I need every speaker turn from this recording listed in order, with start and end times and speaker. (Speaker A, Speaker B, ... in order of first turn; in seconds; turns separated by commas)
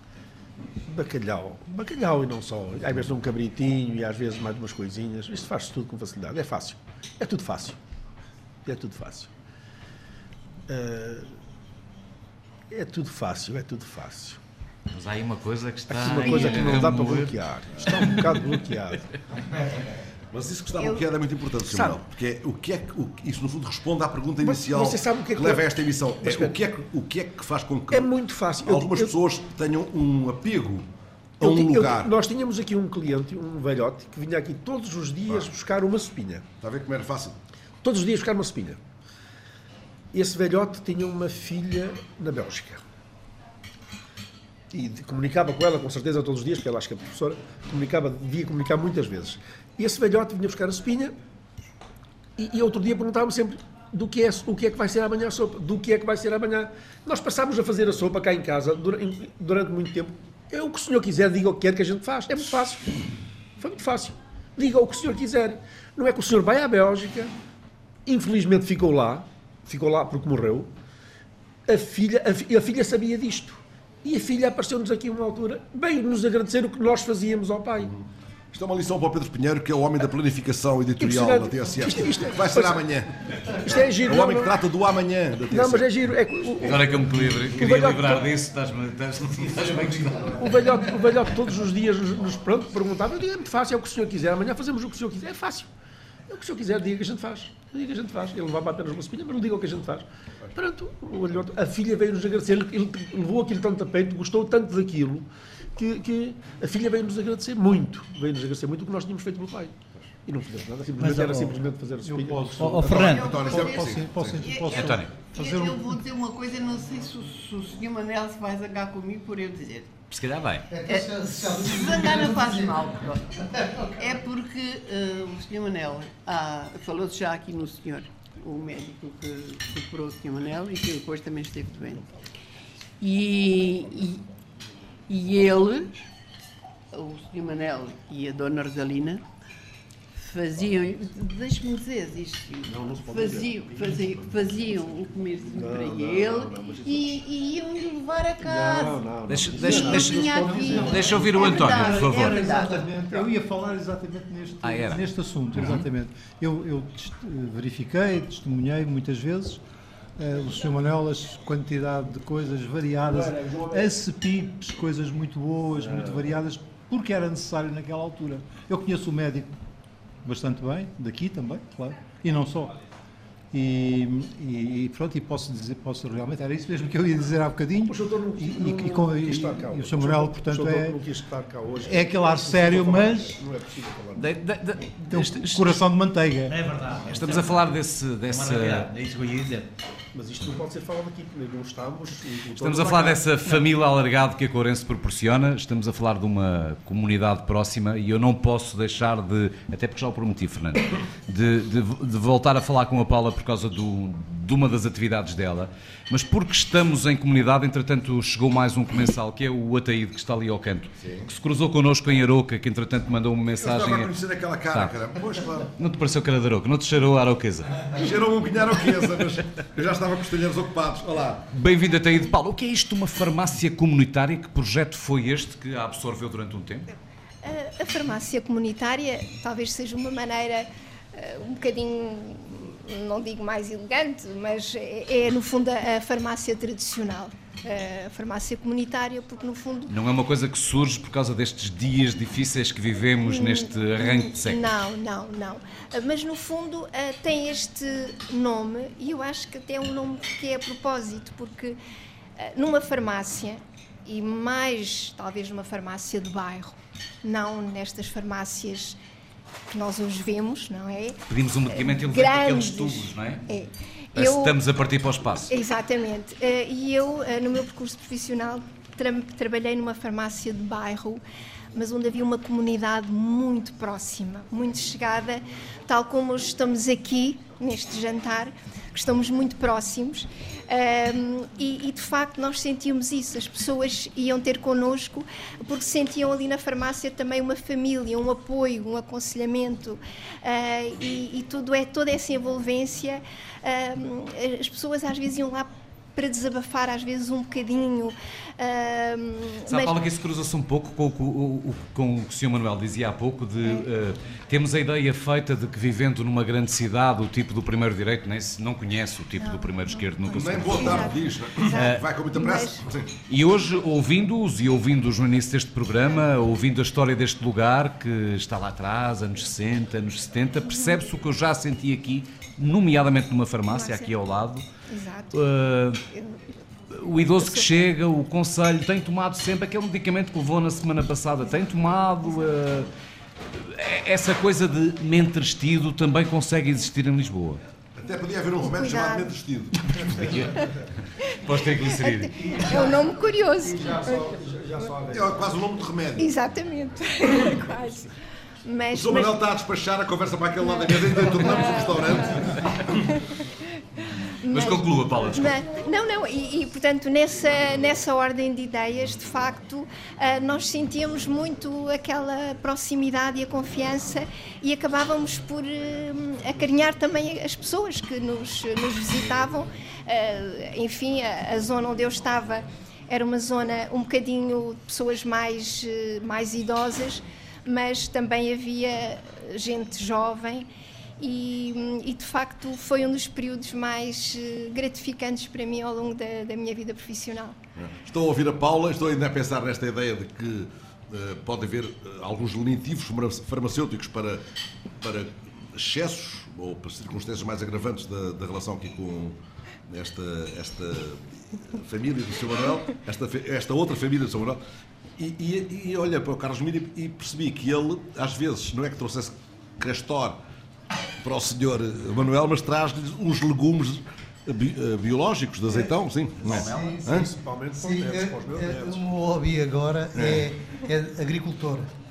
Speaker A: 0.8-7.8, Speaker A: 8.7-9.3, Speaker A: 10.7-11.3, Speaker A: 12.7-14.4, Speaker B: 14.9-17.3, Speaker A: 15.9-19.1, Speaker C: 20.3-30.9, Speaker A: 21.7-22.0, Speaker A: 24.4-25.7, Speaker A: 26.2-26.5, Speaker A: 27.9-29.1, Speaker C: 31.4-32.1, Speaker A: 31.4-36.5, Speaker C: 36.6-37.4, Speaker A: 37.8-38.8, Speaker A: 40.1-42.8, Speaker A: 44.7-51.1, Speaker A: 52.4-63.0, Speaker A: 63.6-67.3, Speaker A: 68.1-70.7, Speaker A: 71.7-77.9, Speaker C: 77.8-86.0, Speaker A: 81.0-82.8, Speaker A: 83.7-84.6, Speaker A: 85.5-88.3, Speaker B: 86.6-90.5, Speaker A: 90.4-95.7, Speaker A: 96.3-112.8, Speaker D: 111.0-111.6, Speaker E: 112.0-115.9, Speaker D: 112.6-113.3, Speaker C: 112.8-114.4, Speaker F: 113.1-113.9, Speaker F: 114.4-119.9, Speaker B: 114.7-115.1, Speaker B: 120.1-120.7, Speaker G: 120.7-122.9, Speaker F: 120.9-123.3, Speaker G: 123.6-124.0, Speaker F: 123.9-132.1, Speaker F: 133.0-134.2, Speaker F: 135.1-136.1, Speaker F: 136.9-139.2, Speaker F: 140.2-152.9, Speaker A: 142.7-144.2, Speaker A: 145.5-147.1, Speaker A: 148.4-151.3, Speaker B: 149.3-152.5, Speaker E: 150.1-159.6, Speaker B: 154.6-155.8, Speaker E: 160.2-169.6, Speaker A: 163.1-163.9, Speaker A: 165.8-166.2, Speaker E: 170.2-172.8, Speaker E: 173.5-181.0, Speaker A: 177.8-184.4, Speaker E: 181.8-183.4, Speaker B: 184.2-185.8, Speaker E: 185.1-186.6, Speaker D: 186.5-187.6, Speaker B: 187.1-188.9, Speaker D: 188.3-189.7, Speaker A: 190.1-193.2, Speaker B: 192.6-214.1, Speaker C: 211.0-211.3, Speaker C: 213.6-215.7, Speaker B: 215.8-217.9, Speaker C: 217.9-221.4, Speaker B: 221.5-226.9, Speaker H: 227.4-239.9, Speaker B: 239.9-244.6, Speaker H: 243.2-251.8, Speaker H: 252.4-259.0, Speaker H: 259.7-264.6, Speaker B: 261.3-263.4, Speaker B: 264.2-265.5, Speaker H: 265.5-271.2, Speaker H: 271.7-300.0, Speaker B: 299.7-311.1, Speaker H: 309.4-312.9, Speaker C: 310.3-313.1, Speaker B: 311.7-312.0, Speaker B: 313.3-324.6, Speaker H: 320.7-321.1, Speaker H: 323.7-324.1, Speaker H: 324.9-325.4, Speaker B: 325.3-326.0, Speaker H: 326.1-327.8, Speaker B: 326.9-332.9, Speaker H: 332.2-332.5, Speaker B: 333.5-337.6, Speaker C: 338.0-339.8, Speaker H: 338.6-339.4, Speaker B: 339.9-342.6, Speaker H: 341.3-344.4, Speaker A: 342.7-345.4, Speaker C: 345.1-346.3, Speaker H: 346.2-348.1, Speaker H: 348.6-349.4, Speaker C: 348.9-352.6, Speaker H: 350.6-353.4, Speaker H: 354.4-380.7, Speaker B: 354.5-355.5, Speaker H: 381.2-387.6, Speaker C: 387.8-394.4, Speaker C: 395.0-399.4, Speaker C: 399.9-404.6, Speaker C: 405.2-410.4, Speaker C: 411.2-417.3, Speaker B: 416.4-417.0, Speaker G: 416.5-417.3, Speaker A: 417.1-419.0, Speaker G: 417.8-421.9, Speaker C: 420.2-420.5